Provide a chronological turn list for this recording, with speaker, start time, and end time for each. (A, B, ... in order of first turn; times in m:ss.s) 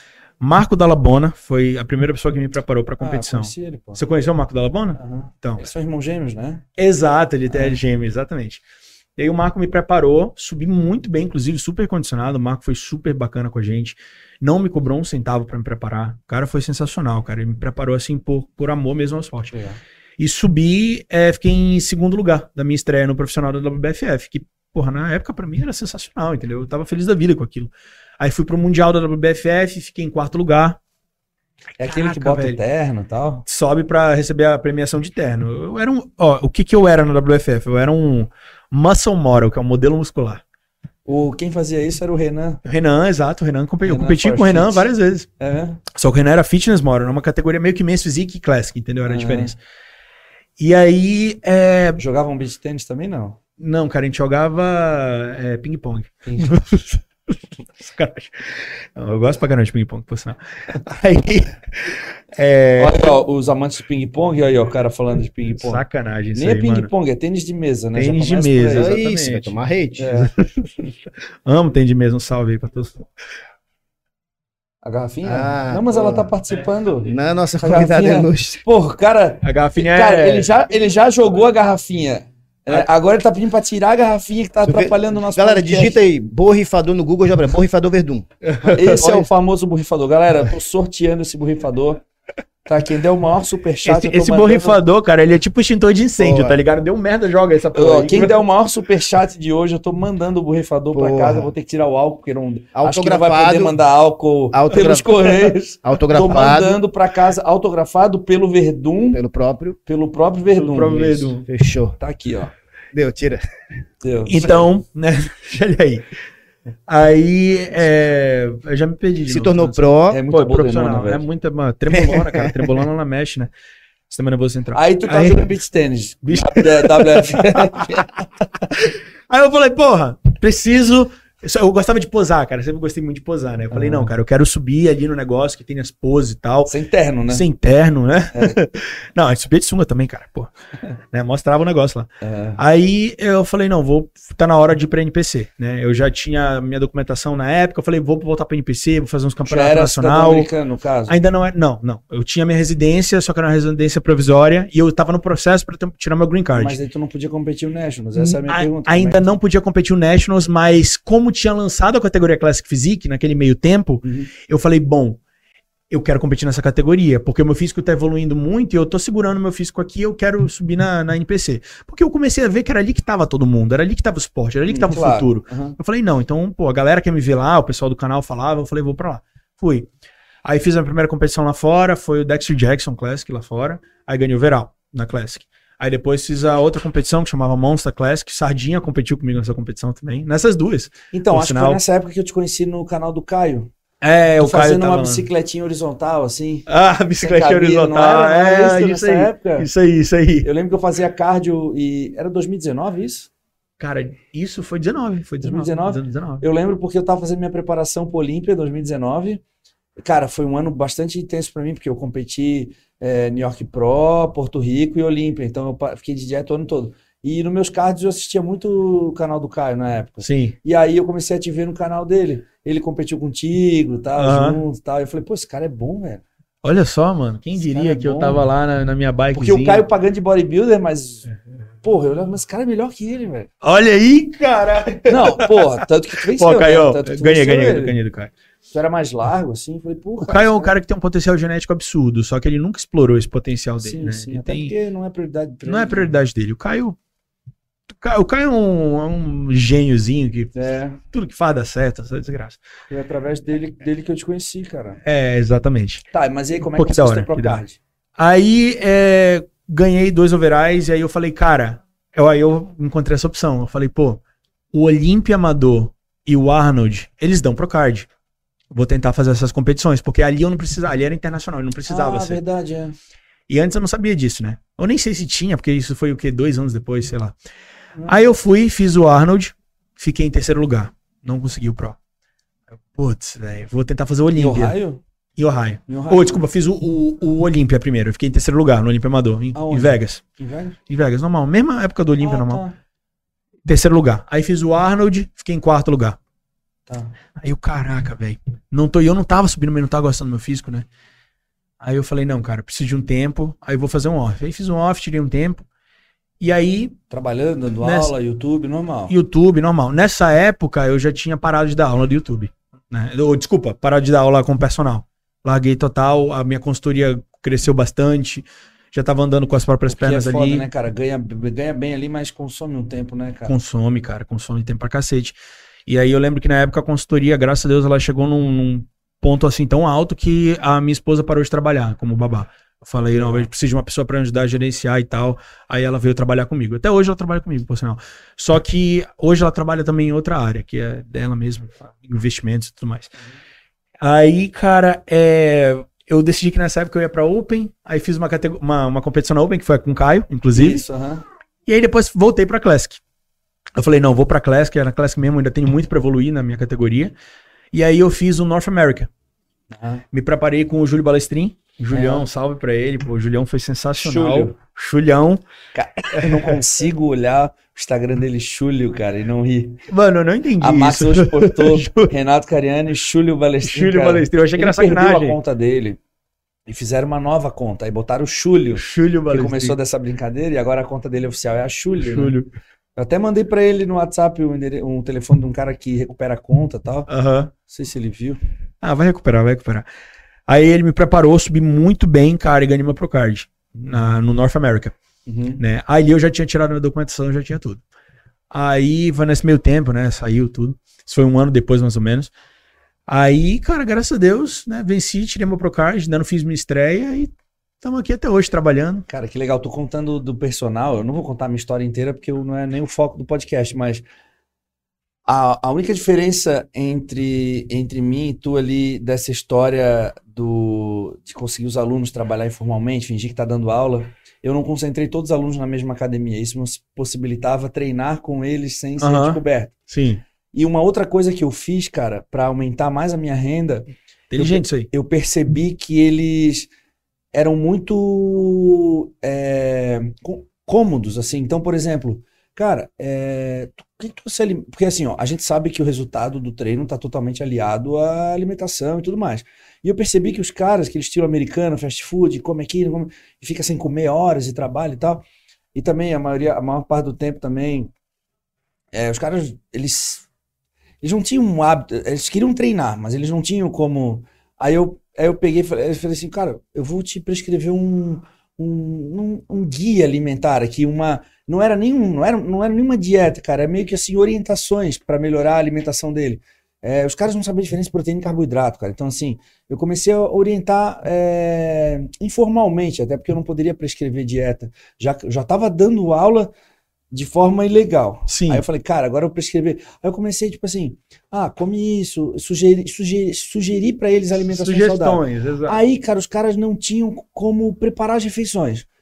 0:00.4-0:05.6 A
0:03.0-0:04.0 B
0:05.0-0:06.6 B
0:06.8-0:08.6 A
0:07.5-0:07.8 B
0:09.2-0:19.5 A
0:19.5-0:19.8 B
0:20.2-0:30.8 A
0:31.8-0:32.6 A
0:31.8-0:33.4 B
0:33.5-0:40.4 A
0:41.1-0:42.6 B
0:42.6-0:45.3 A
0:43.8-0:45.8 B
0:45.9-0:49.6 A
0:49.0-0:49.5 B
0:50.6-0:52.0 A
0:52.0-0:53.4 B
0:53.6-0:57.0 A
0:56.2-0:56.6 B
0:57.8-1:03.2 A
1:02.8-1:05.8 B
1:05.6-1:06.9 A
1:06.4-1:09.0 B
1:08.0-1:09.6 A
1:08.7-1:10.2 C
1:10.0-1:10.3 B
1:10.4-1:10.7 A
1:11.4-1:13.1 A
1:14.8-1:26.0 B
1:15.2-1:16.3 C
1:17.0-1:18.6 C
1:19.4-1:20.5 A
1:24.6-1:29.3 C
1:28.4-1:29.0 A
1:28.7-1:32.0 B
1:32.7-1:34.8 B
1:33.8-1:38.4 A
1:36.2-1:36.6 C
1:37.8-1:49.2 B
1:40.9-1:41.5 C
1:42.8-1:43.8 C
1:44.5-1:46.8 C
1:49.1-1:49.8 C
1:49.9-1:51.3 B
1:50.5-1:51.5 A
1:51.5-1:52.0 C
1:52.0-1:52.5 B
1:52.9-1:53.4 C
1:54.0-1:54.5 B
1:54.3-1:56.1 A
1:56.9-2:03.5 A
1:59.3-2:00.2 C
2:00.1-2:01.2 B
2:01.9-2:02.7 C
2:04.1-2:05.5 A
2:04.7-2:08.1 B
2:06.2-2:16.7 A
2:13.7-2:14.1 B
2:16.7-2:17.4 B
2:17.3-2:20.5 A
2:21.1-2:30.5 A
2:22.2-2:22.6 B
2:29.5-2:31.2 B
2:31.1-2:36.8 A
2:36.6-2:39.3 B
2:38.2-2:45.2 A
2:44.0-2:44.3 B
2:45.9-2:59.9 A
2:54.7-2:55.8 B
3:00.4-3:11.8 A
3:11.1-3:13.7 B
3:14.0-3:15.2 A
3:14.4-3:16.7 B
3:16.7-3:20.5 A
3:17.2-3:19.7 B
3:20.4-3:23.3 B
3:23.8-3:26.4 A
3:25.4-3:29.4 B
3:30.0-3:46.2 B
3:40.2-3:40.6 A
3:44.2-3:44.6 A
3:46.6-3:49.9 A
3:47.6-3:48.4 B
3:49.3-3:51.3 B
3:51.8-3:53.5 B
3:53.6-3:55.8 A
3:55.1-3:58.0 B
3:56.3-3:58.3 A
3:58.7-4:00.7 B
4:00.2-4:04.7 A
4:03.8-4:06.1 B
4:05.6-4:07.0 A
4:08.0-4:10.5 A
4:10.6-4:11.0 B
4:11.1-4:12.6 A
4:12.9-4:15.0 B
4:15.0-4:16.0 A
4:16.1-4:17.8 B
4:16.7-4:17.6 A
4:18.2-4:24.2 A
4:24.7-4:28.1 A
4:28.7-4:32.4 A
4:31.9-4:33.0 B
4:33.5-4:37.4 A
4:38.1-4:42.0 A
4:42.9-4:44.8 A
4:44.3-4:45.0 B
4:45.4-4:50.2 A
4:45.9-4:46.4 B
4:49.6-4:50.8 B
4:50.9-4:52.6 A
4:52.2-4:52.8 B
4:53.7-4:56.2 A
4:56.9-4:57.1 B
4:57.4-5:00.9 A
5:01.8-5:05.6 A
5:06.4-5:07.0 A
5:07.1-5:09.2 B
5:07.8-5:08.1 A
5:09.1-5:20.7 A
5:19.9-5:23.6 B
5:23.5-5:25.4 A
5:25.9-5:43.1 A
5:33.1-5:33.5 B
5:44.0-5:50.8 A
5:50.5-5:51.2 B
5:51.7-5:53.0 A
5:53.8-5:57.1 A
5:57.7-5:59.1 A
5:59.7-6:00.0 B
6:00.1-6:05.4 A
6:01.9-6:02.3 B
6:04.0-6:04.5 B
6:05.7-6:09.8 B
6:06.2-6:06.6 A
6:09.9-6:12.1 A
6:10.6-6:16.0 B
6:13.6-6:15.4 A
6:16.7-6:22.4 B
6:18.8-6:19.8 A
6:22.0-6:22.5 A
6:23.0-6:27.1 B
6:27.1-6:27.5 A
6:27.7-6:28.4 B
6:28.8-6:29.9 A
6:30.5-6:34.9 A
6:35.3-6:35.6 B
6:35.6-6:37.8 A
6:38.5-6:42.3 A
6:43.1-6:49.1 A
6:49.1-6:54.0 B
6:55.3-7:09.8 B
7:09.0-7:10.2 A
7:10.5-7:16.7 B
7:14.3-7:14.9 A
7:17.3-7:35.2 B
7:35.8-7:37.9 B
7:38.9-7:40.2 B
7:41.0-8:06.5 B
8:07.1-8:18.9 B
8:08.3-8:08.6 A
8:14.5-8:15.8 A